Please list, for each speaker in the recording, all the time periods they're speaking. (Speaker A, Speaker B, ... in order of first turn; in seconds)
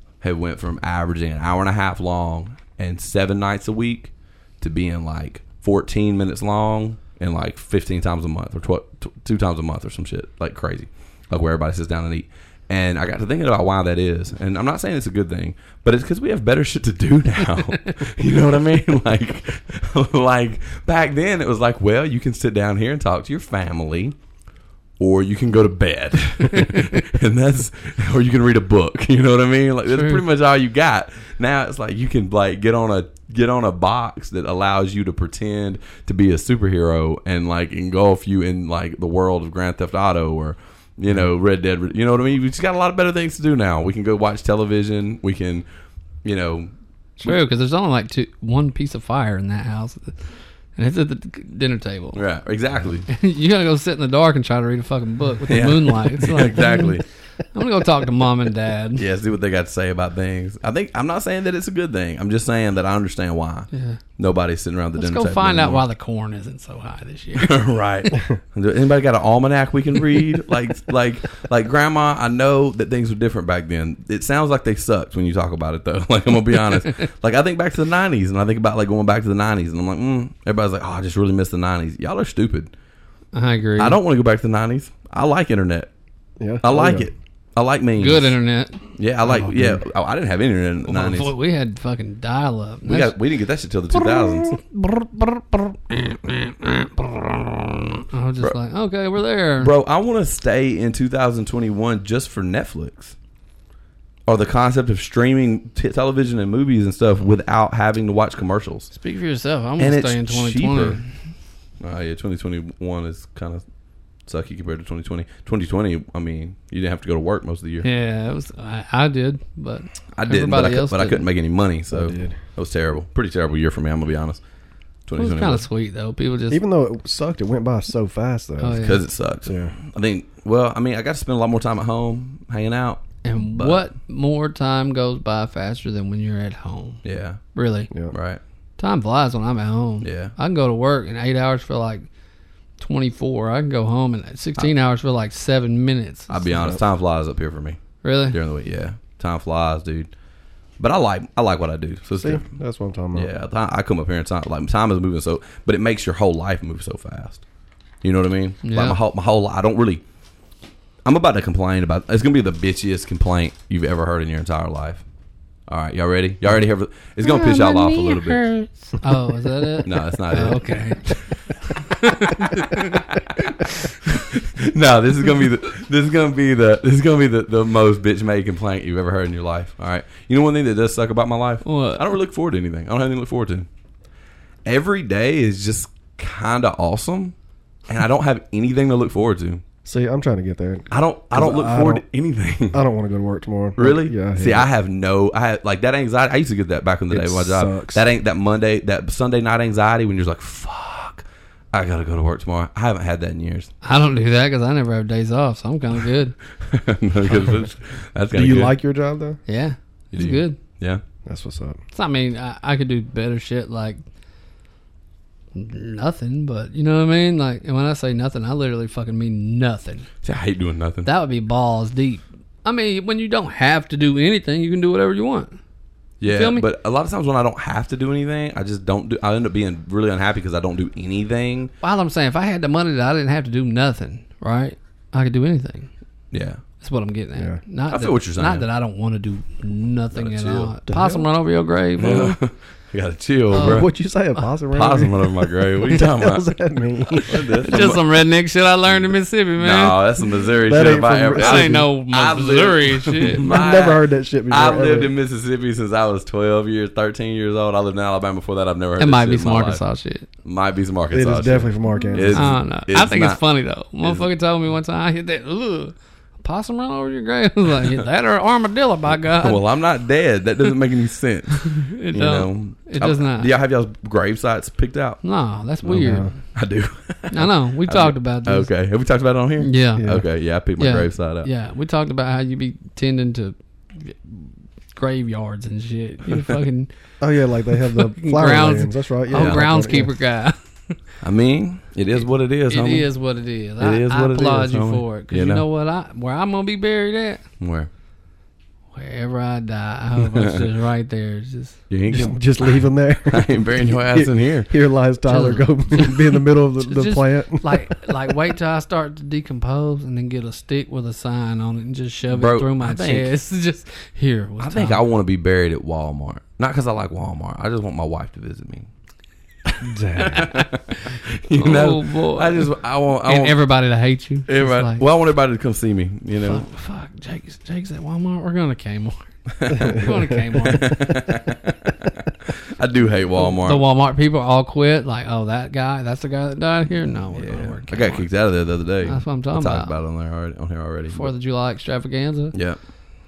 Speaker A: 0.2-24.1, 25.0-45.6, 46.2-46.7, 52.1-53.1, 55.4-57.0, 58.9-65.8, 67.3-82.7, 83.8-85.9, 86.6-88.3, 89.0-91.3, 92.8-94.6, 99.6-103.1, 104.2-108.9, 109.8-111.0, 111.8-113.6, 114.2-117.8, 120.2-124.4, 125.1-125.6, 128.8-133.8, 137.0-137.4, 138.1-138.4, 140.0-140.3, 146.3-150.1, 150.8-152.5, 153.1-157.4, 158.0-160.0, 161.0-165.0, 165.7-168.5, 169.8-170.7, 174.2-183.7, 184.6-187.3, 187.9-189.6, 190.9-192.8, 193.8-203.7, 206.6-208.7, 210.1-211.0, 220.2-221.1, 226.2-231.7, 236.3-236.6, 237.9-238.7, 240.1-240.7, 242.0-243.9, 244.7-248.0, 249.6-259.8, 260.4-263.4, 264.0-264.3, 269.4-275.2, 276.5-281.5, 289.3-289.6, 291.2-293.1, 293.8-295.6, 297.6-297.9, 300.2-300.7, 301.9-302.5, 303.3-304.7, 312.3-313.3, 314.6-318.9, 320.2-323.6, 324.5-326.6, 329.5-333.8, 337.3-341.3, 342.5-342.8
Speaker B: 29.9-30.2, 47.2-50.2, 50.8-52.2, 53.1-59.0, 63.7-64.0, 65.0-67.5, 83.3-84.0, 88.0-88.8, 90.9-93.1, 94.0-99.7, 108.9-111.1, 117.8-121.2, 125.2-126.6, 128.6-129.0, 133.2-137.0, 137.5-137.9, 138.8-142.1, 142.8-146.5, 148.0-148.4, 158.6-159.0, 167.2-173.9, 181.6-182.0, 203.8-206.3, 209.4-210.6, 211.9-214.0, 215.5-220.1, 221.0-225.6, 226.3-226.6, 231.8-235.9, 236.8-242.4, 243.5-243.9, 247.6-250.0, 251.3-253.5, 259.0-260.3, 262.3-269.7, 271.5-273.5, 275.2-276.3, 277.3-278.7, 279.6-280.1, 280.8-286.9, 287.8-290.6, 292.7-297.4, 298.9-301.8, 305.2-315.0, 320.2-322.7, 323.2-325.0, 326.4-331.0, 333.4-338.3, 339.0-339.9, 341.1-342.5
Speaker C: 86.4-87.1, 89.4-89.8, 121.9-122.4, 126.5-128.9, 129.4-129.7, 152.2-153.3, 189.8-192.0, 192.7-194.7, 197.1-198.0, 208.3-209.4, 211.2-211.8, 240.9-241.2, 243.5-245.3, 245.8-247.7, 250.6-251.9, 253.3-255.1, 261.1-262.5, 275.9-276.3, 280.0-280.2, 287.2-290.1, 302.1-308.2, 319.8-320.4